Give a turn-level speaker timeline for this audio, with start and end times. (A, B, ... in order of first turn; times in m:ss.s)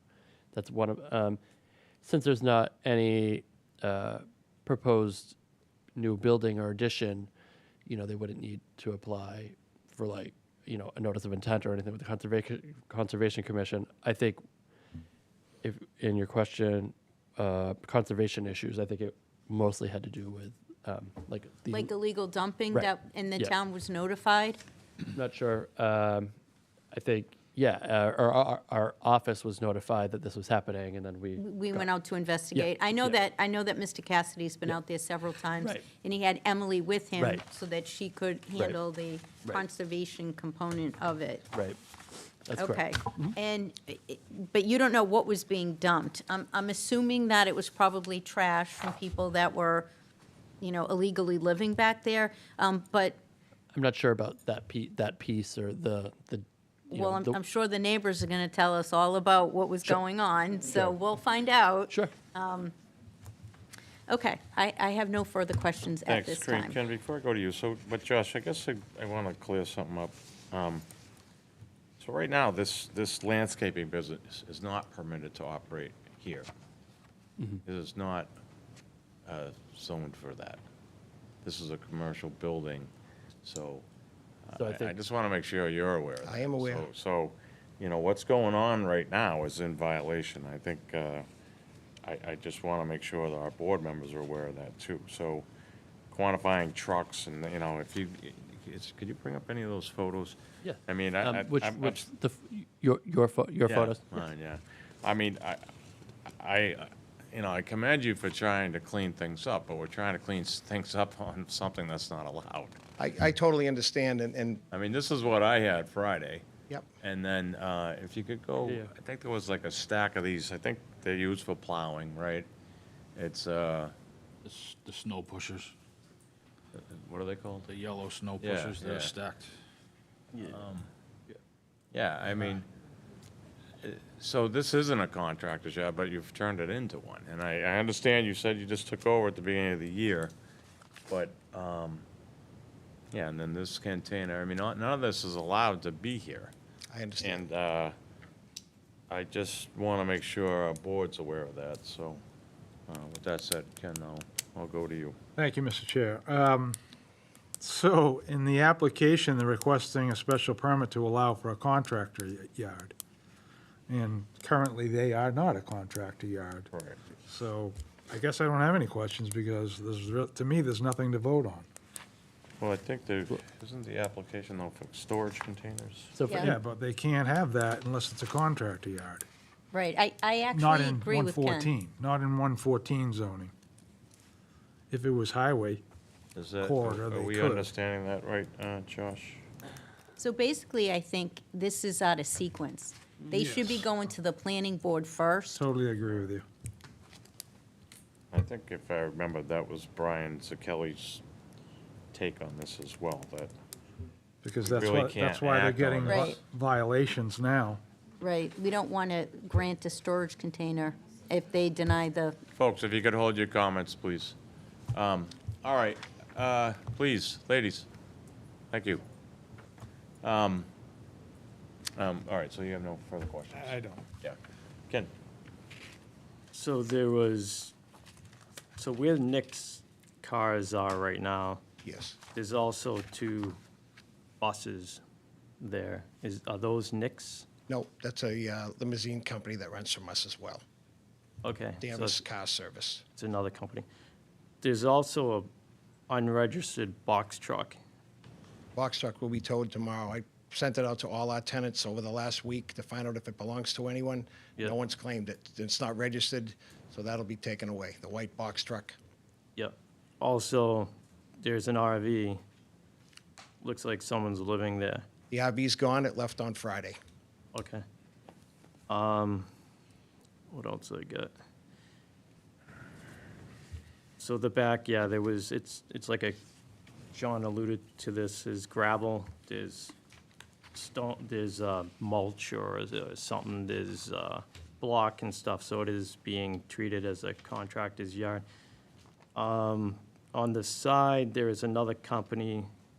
0:00.5-0:01.4 A
0:02.0-0:05.4 A
0:06.0-0:07.3 A
0:07.9-0:14.4 A
0:15.6-0:21.9 A
0:21.7-0:24.6 B
0:22.7-0:23.5 A
0:25.1-0:26.3 A
0:26.9-0:31.9 A
0:31.4-0:41.5 B
0:32.5-0:33.2 A
0:37.2-0:37.4 A
0:41.5-0:41.8 A
0:42.4-0:43.4 A
0:42.6-0:49.9 B
0:50.6-0:53.2 B
0:53.7-0:57.4 A
0:56.9-1:02.7 B
1:00.7-1:01.0 A
1:04.1-1:06.8 B
1:06.1-1:10.8 C
1:12.0-1:16.5 C
1:17.6-1:18.3 C
1:19.3-1:20.6 C
1:21.4-1:22.9 C
1:23.4-1:23.8 C
1:24.5-1:31.3 C
1:24.6-1:24.9 A
1:26.2-1:26.9 D
1:32.0-1:35.5 C
1:36.1-1:42.0 C
1:40.6-1:44.2 A
1:43.7-1:45.6 C
1:46.4-1:52.8 C
1:53.0-1:54.6 D
1:54.7-1:56.4 C
1:57.0-2:02.5 C
1:58.6-1:58.9 A
2:03.2-2:04.0 C
2:04.4-2:05.7 E
2:06.7-2:07.7 C
2:07.7-2:09.5 E
2:08.4-2:09.1 C
2:10.4-2:10.6 F
2:10.5-2:10.9 C
2:11.9-2:12.7 C
2:13.8-2:20.4 C
2:21.1-2:22.0 C
2:23.1-2:26.5 C
2:26.9-2:27.5 D
2:27.2-2:28.0 C
2:29.1-2:32.2 C
2:32.9-2:35.2 C
2:35.4-2:36.8 G
2:37.6-2:42.9 G
2:43.9-2:46.7 G
2:46.7-2:47.0 C
2:47.3-2:51.7 G
2:52.6-2:56.2 C
2:56.1-2:56.6 A
2:56.3-2:56.5 B
2:56.4-2:59.3 G
2:59.7-3:01.7 B
3:00.5-3:03.5 G
3:04.9-3:05.8 G
3:06.4-3:09.5 C
3:06.6-3:07.7 G
3:10.2-3:15.6 B
3:13.3-3:13.9 G
3:15.5-3:16.4 G
3:18.3-3:21.2 C
3:22.1-3:23.5 C
3:24.4-3:27.8 G
3:24.6-3:26.3 C
3:26.0-3:26.4 B
3:28.2-3:32.4 B
3:32.6-3:34.4 C
3:34.9-3:37.9 C
3:38.7-3:39.0 C
3:40.2-3:40.7 C
3:42.0-3:44.4 C
3:43.5-3:44.0 G
3:46.5-3:47.7 F
3:48.8-3:51.6 F
3:51.8-3:52.2 D
3:52.3-3:53.6 F
3:54.4-3:55.0 F
3:55.6-3:57.5 F
3:57.7-4:00.6 D
4:01.4-4:02.2 F
4:01.8-4:03.0 D
4:03.2-4:03.9 F
4:04.6-4:05.5 F
4:06.1-4:07.8 F
4:08.8-4:19.0 D
4:19.6-4:22.4 F
4:23.6-4:25.0 F
4:25.3-4:27.0 D
4:27.5-4:27.8 F
4:28.9-4:29.5 F
4:30.5-4:31.3 F
4:34.2-4:36.4 F
4:37.1-4:40.0 F
4:40.8-4:48.4 F
4:49.4-4:52.7 F